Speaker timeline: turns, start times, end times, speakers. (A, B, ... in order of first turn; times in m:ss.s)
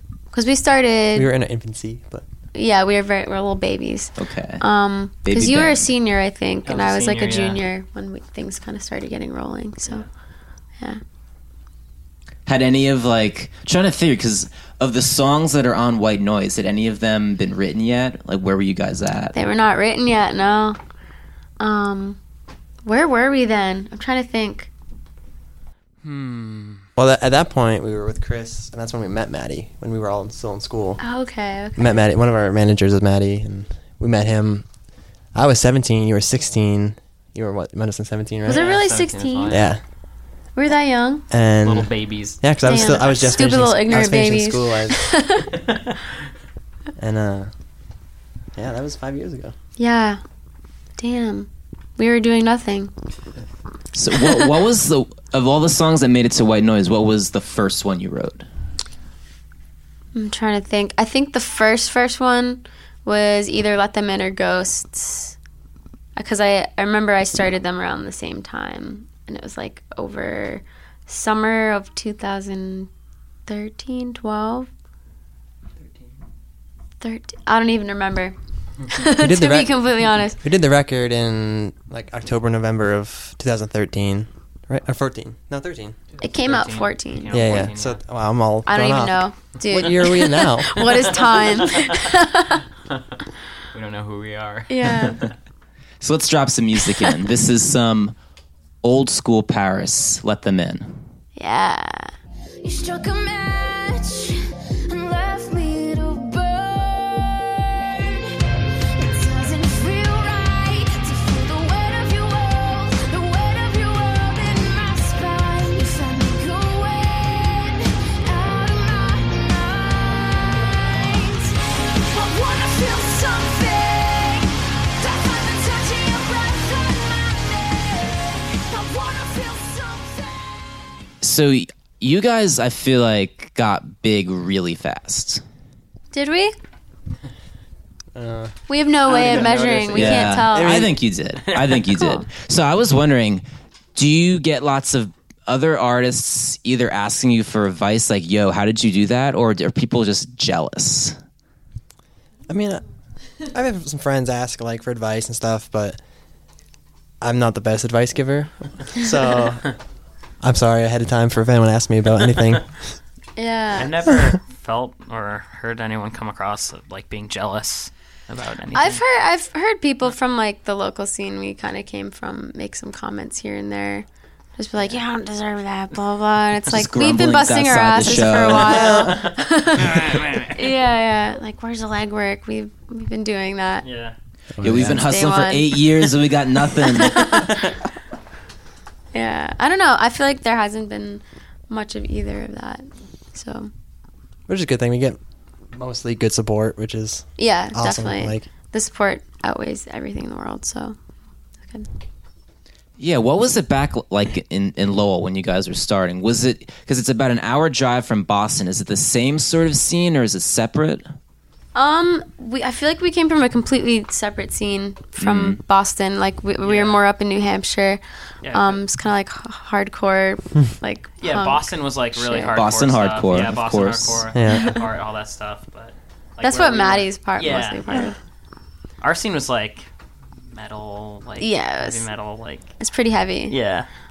0:00.3-0:01.3 A
0:01.1-0:02.3 B
0:02.5-0:10.1 A
0:04.2-0:04.6 C
0:05.2-0:05.9 C
0:06.7-0:07.6 D
0:12.5-0:19.4 C
0:19.3-0:20.8 A
0:21.6-0:22.2 A
0:22.8-0:24.7 A
0:26.0-0:26.8 D
0:27.0-0:31.0 B
0:31.0-0:32.0 A
0:31.8-0:34.7 B
0:35.3-0:38.7 B
0:38.4-0:39.6 A
0:38.5-0:39.7 D
0:39.5-0:39.8 B
0:40.6-0:41.2 A
0:41.3-0:45.1 B
0:41.6-0:43.3 D
0:42.7-0:45.5 A
0:47.0-0:47.5 B
0:48.6-0:49.6 B
0:49.8-0:50.2 A
0:51.0-0:52.9 A
0:53.9-0:58.5 C
1:00.2-1:05.4 A
1:06.2-1:12.9 A
1:13.5-1:14.7 A
1:17.0-1:18.4 A
1:18.9-1:20.4 A
1:19.2-1:26.0 B
1:26.2-1:28.0 D
1:26.2-1:27.6 A
1:27.3-1:30.8 B
1:28.7-1:32.6 A
1:30.9-1:31.9 D
1:33.7-1:35.3 D
1:34.7-1:35.2 A
1:36.0-1:38.2 C
1:38.8-1:41.0 C
1:41.4-1:42.1 A
1:42.6-1:48.2 E
1:49.0-2:10.8 E
2:11.2-2:15.4 C
2:16.1-2:16.6 A
2:18.2-2:18.6 B
2:18.7-2:20.9 A
2:19.1-2:20.3 D
2:19.3-2:21.0 B
2:19.9-2:31.2 C
2:21.5-2:21.8 D
2:22.0-2:22.3 A
2:32.5-2:32.8 B
2:33.5-2:36.0 B
2:37.2-2:39.8 B
2:40.4-2:43.0 B
2:43.4-2:43.9 A
2:43.8-2:49.0 D
2:44.1-2:44.3 B
2:48.7-2:54.1 A
2:54.6-3:03.9 A
2:56.7-2:59.0 C
2:58.8-3:00.7 D
2:58.9-2:59.1 B
3:03.8-3:04.2 D
3:04.6-3:05.0 B
3:04.6-3:07.5 C
3:04.9-3:05.9 A
3:06.8-3:07.6 A
3:09.1-3:13.7 A
3:14.5-3:15.2 B
3:15.7-3:18.5 B
3:17.4-3:21.0 A
3:23.0-3:31.1 C
3:31.8-3:38.0 A
3:35.2-3:35.6 C
3:36.6-3:37.0 D
3:38.4-3:38.8 D
3:38.5-3:42.6 A
3:41.2-3:48.1 D
3:42.5-3:44.3 C
3:44.3-3:44.8 B
3:46.4-3:48.2 A
3:49.0-3:49.9 D
3:50.5-3:52.7 D
3:51.4-3:52.1 A
3:52.8-3:53.6 A
3:53.5-3:53.9 D